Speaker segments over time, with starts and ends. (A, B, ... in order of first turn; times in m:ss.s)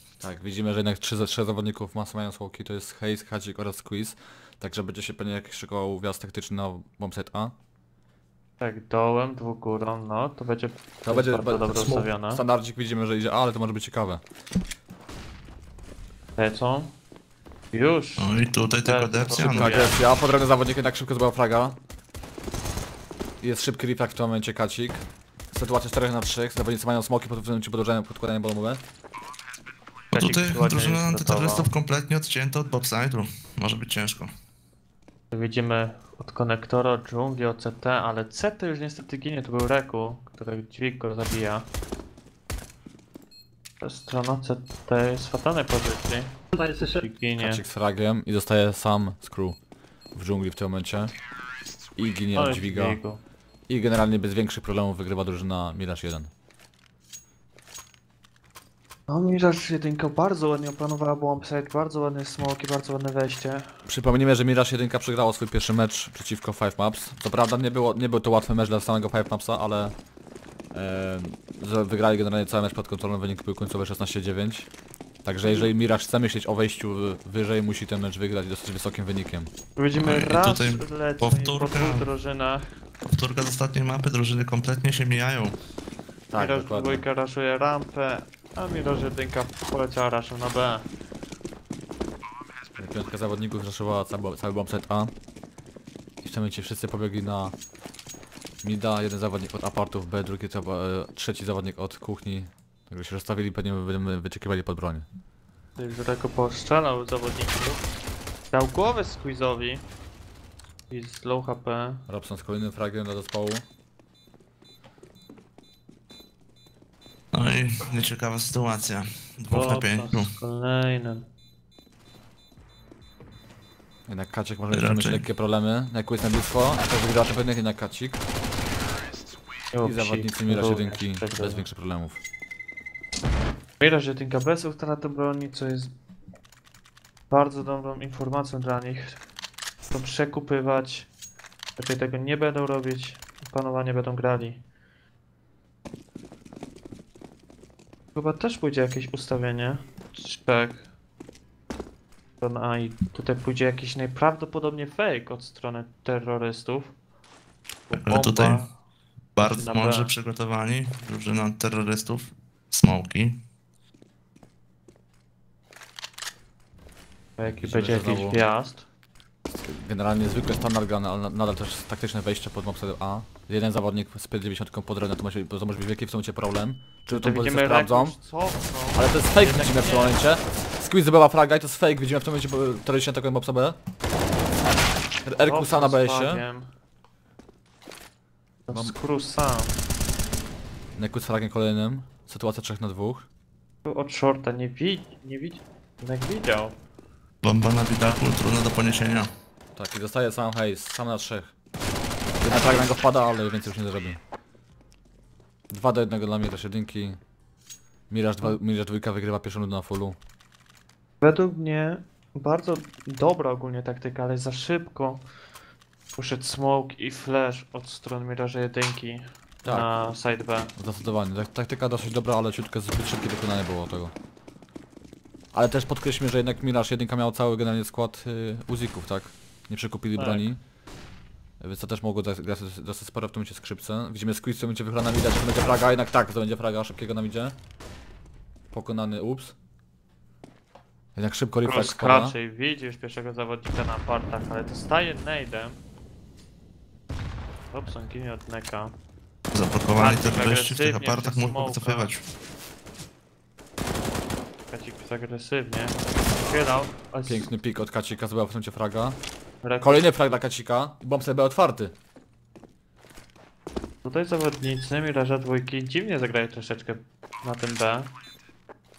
0:00.2-0:07.5 A
0:08.6-0:12.4 B
0:11.0-0:14.2 A
0:16.4-0:16.9 B
0:17.7-0:18.3 B
0:18.2-0:19.9 C
0:18.8-0:20.0 B
0:19.4-0:21.8 A
0:23.4-0:28.8 A
0:30.1-0:31.7 B
0:30.2-0:34.3 C
0:35.3-0:41.7 B
0:43.8-0:47.6 B
0:47.4-0:49.6 A
0:50.1-0:51.1 A
0:52.0-0:53.0 A
0:52.3-0:53.2 B
0:53.7-0:56.3 A
0:59.1-1:03.8 B
1:03.8-1:10.0 A
1:10.7-1:14.7 A
1:15.2-1:19.5 A
1:15.5-1:15.7 B
1:19.8-1:22.7 B
1:20.0-1:22.1 C
1:23.0-1:25.6 C
1:26.3-1:27.0 A
1:26.4-1:30.9 B
1:32.8-1:35.1 A
1:36.2-1:37.6 A
1:38.6-1:45.1 A
1:45.8-1:47.8 B
1:48.5-1:49.8 B
1:50.9-1:52.0 B
1:52.1-1:53.6 A
1:57.3-2:00.4 C
1:59.5-2:01.3 B
2:04.1-2:08.2 A
2:04.7-2:05.3 C
2:09.7-2:11.6 B
2:09.8-2:12.2 A
2:13.8-2:15.9 B
2:17.3-2:19.2 B
2:19.9-2:21.1 B
2:21.8-2:24.6 B
2:28.2-2:30.9 B
2:32.4-2:36.9 B
2:37.9-2:38.7 B
2:37.9-2:38.6 C
2:39.4-2:43.4 C
2:39.4-2:40.1 B
2:47.4-2:48.9 B
2:47.4-2:48.4 A
2:49.5-2:58.2 A
2:57.1-3:00.2 B
2:59.0-3:03.8 A
3:05.2-3:06.4 A
3:05.4-3:06.7 B
3:08.7-3:09.8 B
3:11.0-3:13.3 A
3:13.8-3:16.8 B
3:17.4-3:19.3 C
3:19.8-3:21.5 A
3:22.4-3:24.2 A
3:25.7-3:27.2 A
3:28.1-3:30.2 A
3:31.2-3:35.2 B
3:36.2-3:40.7 B
3:40.8-3:44.1 A
3:45.5-3:50.6 A
3:50.2-3:50.4 B
3:51.6-3:57.6 A
3:58.7-3:59.6 A
4:01.2-4:02.4 A
4:01.6-4:05.8 B
4:07.7-4:09.0 B
4:09.5-4:12.3 C
4:10.0-4:12.1 B
4:14.7-4:17.5 B
4:17.2-4:19.2 A
4:19.6-4:20.0 B
4:19.8-4:22.0 A
4:24.0-4:28.1 B